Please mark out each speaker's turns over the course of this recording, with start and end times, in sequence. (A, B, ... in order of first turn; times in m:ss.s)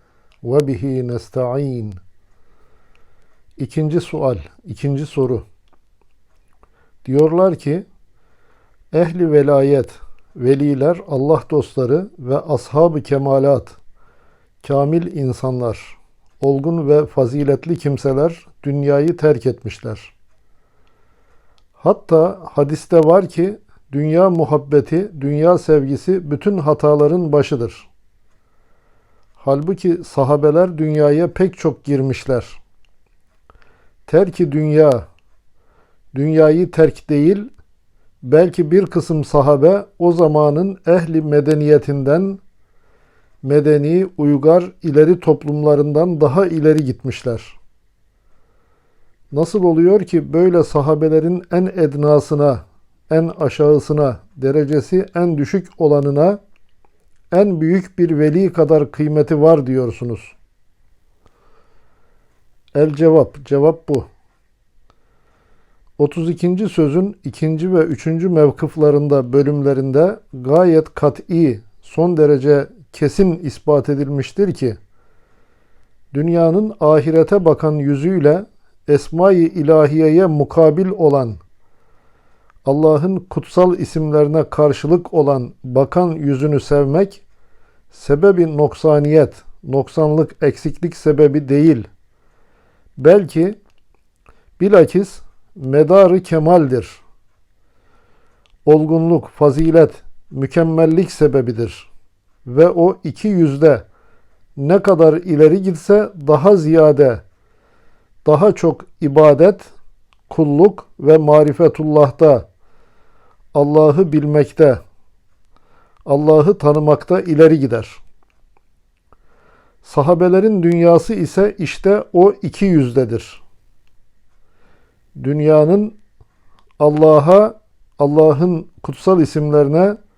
0:00.4-0:02.0 A
0:03.6-0:05.4 A
0:07.0-0:07.8 A
0:08.9-0:13.8 A
0:14.6-0:20.1 A
0:21.8-0:27.9 A
0:29.4-0:32.6 A
0:34.1-0:35.1 A
0:36.1-0:37.5 A
0:38.2-0:42.4 A
0:43.4-0:47.6 A
0:49.3-0:56.4 A
0:57.3-1:00.4 A
1:02.7-1:04.1 A
1:06.0-1:14.8 A
1:16.1-1:21.4 A
1:22.6-1:27.2 A
1:27.9-1:31.9 A
1:33.0-1:33.6 A
1:34.6-1:37.0 A
1:38.6-1:41.9 A
1:42.4-1:43.8 A
1:44.6-1:47.2 A
1:48.2-1:49.7 A
1:50.3-1:52.5 A
1:53.5-1:54.8 A
1:56.0-1:58.0 A
1:59.8-2:03.4 A
2:05.2-2:06.0 A
2:06.8-2:10.0 A